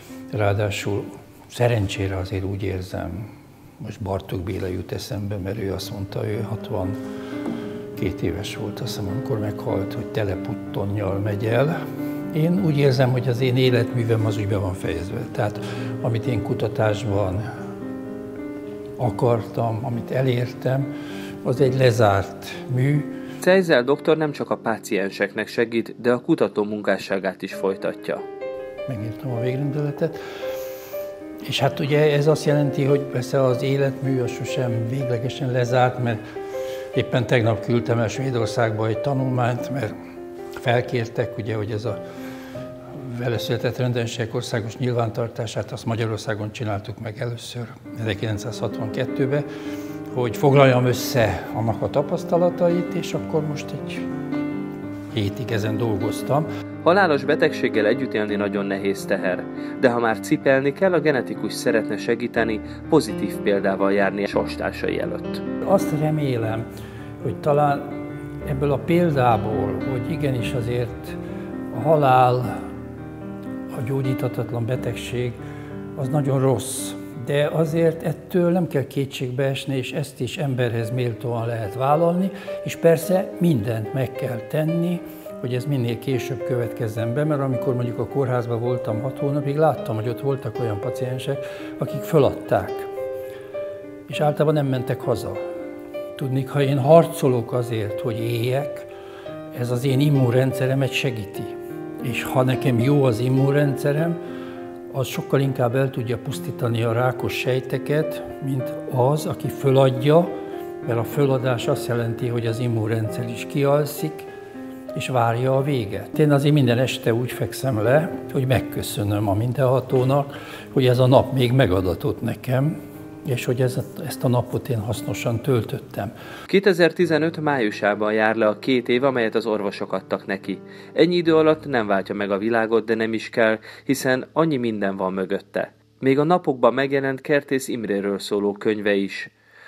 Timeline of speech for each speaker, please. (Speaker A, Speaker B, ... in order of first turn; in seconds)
Speaker A: 0.3-7.0, 8.0-11.7, 12.3-17.4, 19.0-20.9, 21.4-23.1, 28.9-30.2, 31.4-36.2, 36.9-39.9, 40.6-42.0, 42.9-49.5, 50.1-54.0, 55.1-56.5, 65.6-66.6, 67.2-67.9, 68.4-71.2, 71.7-72.5, 73.7-75.4, 76.0-92.9, 94.1-95.4, 96.2-98.9, 99.5-104.2, 104.9-110.3, 110.8-114.3, 114.9-126.1
Speaker B: 23.4-28.2, 56.8-65.4, 126.5-139.3